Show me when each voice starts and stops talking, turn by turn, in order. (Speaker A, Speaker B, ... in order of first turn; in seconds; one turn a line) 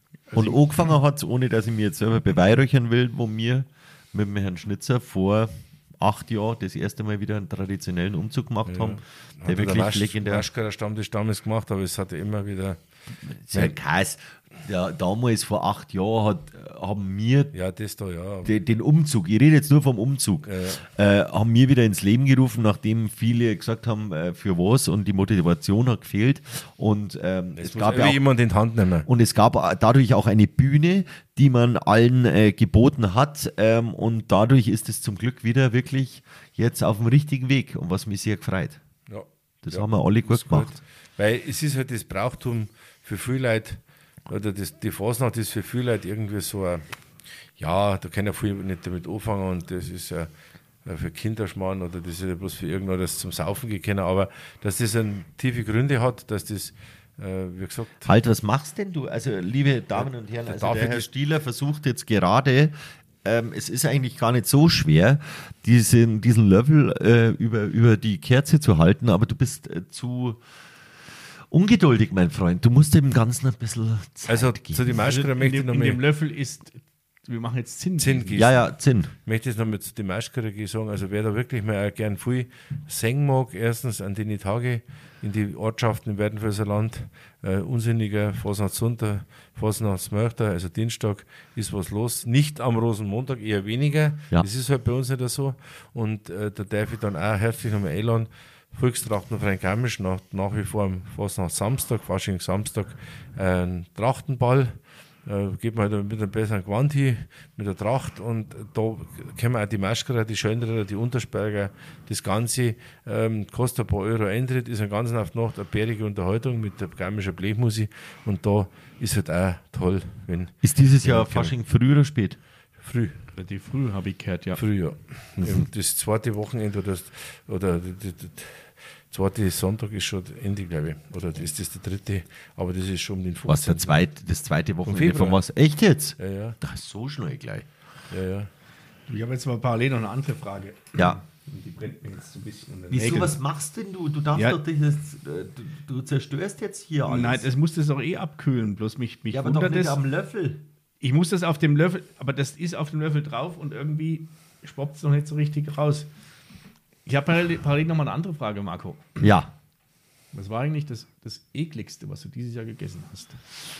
Speaker A: 0.3-0.6
Speaker B: 0.3-10.5
Speaker C: 8.7-12.8
Speaker B: 13.5-17.5
Speaker C: 17.5-18.5
Speaker B: 18.4-28.2
Speaker C: 20.4-20.8
Speaker C: 27.6-29.1
Speaker B: 29.1-38.8
Speaker C: 39.1-46.8
Speaker B: 39.6-40.8
Speaker C: 47.6-50.3
Speaker C: 50.9-58.1
Speaker B: 58.0-70.4
Speaker C: 60.0-61.1
Speaker B: 71.5-75.0
Speaker C: 74.3-76.0
Speaker A: 75.0-78.5
Speaker C: 78.0-78.7
Speaker B: 78.3-79.1
Speaker C: 79.2-121.5
Speaker B: 120.6-122.4
Speaker C: 122.8-123.2
Speaker A: 123.3-124.6
Speaker C: 124.6-134.0
Speaker B: 133.5-137.7
Speaker C: 134.9-135.4
Speaker C: 136.2-136.6
Speaker C: 138.1-138.5
Speaker A: 139.1-143.4
Speaker B: 142.9-147.5
Speaker A: 147.1-150.0
Speaker B: 149.3-150.6
Speaker A: 151.0-156.1
Speaker A: 157.1-159.2
Speaker B: 159.2-159.5
Speaker A: 160.3-163.4